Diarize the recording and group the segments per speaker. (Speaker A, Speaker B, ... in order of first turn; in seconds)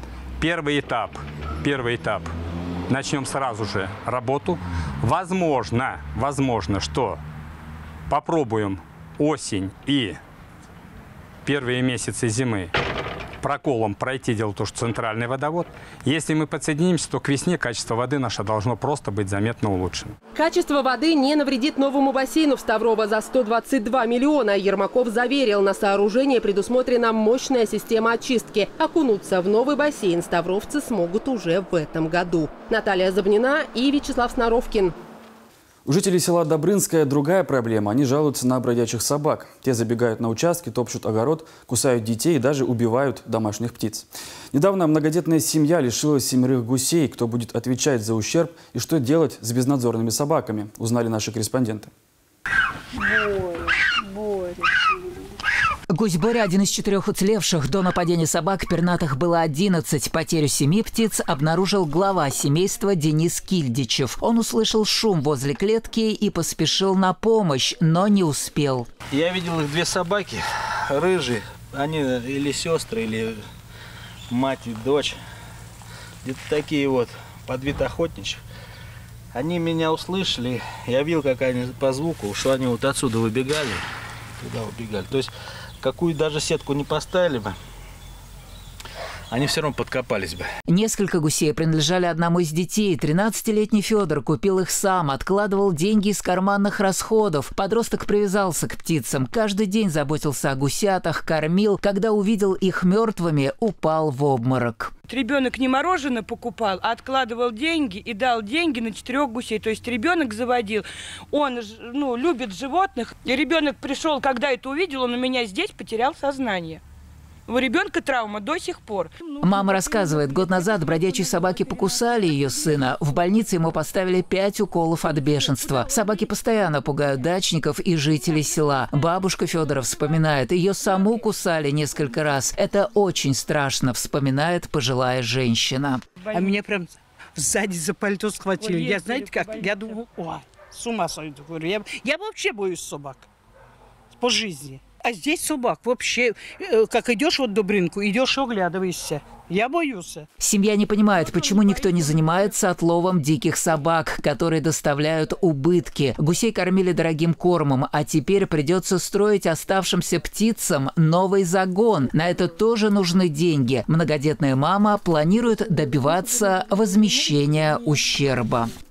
Speaker A: 0.4-2.3, 2.9-7.2, 8.1-10.2, 11.4-12.7, 13.4-20.1
Speaker B: 20.4-34.9
Speaker C: 35.9-51.9
Speaker D: 55.9-68.9, 90.7-104.9, 119.4-136.0, 150.4-168.7
Speaker E: 69.1-70.4, 71.0-73.3, 74.3-75.1, 76.2-78.4, 79.3-83.6, 84.4-85.3, 85.8-87.5, 89.3-89.9
Speaker F: 105.1-116.8, 117.5-119.2
Speaker G: 136.3-143.3, 144.2-150.3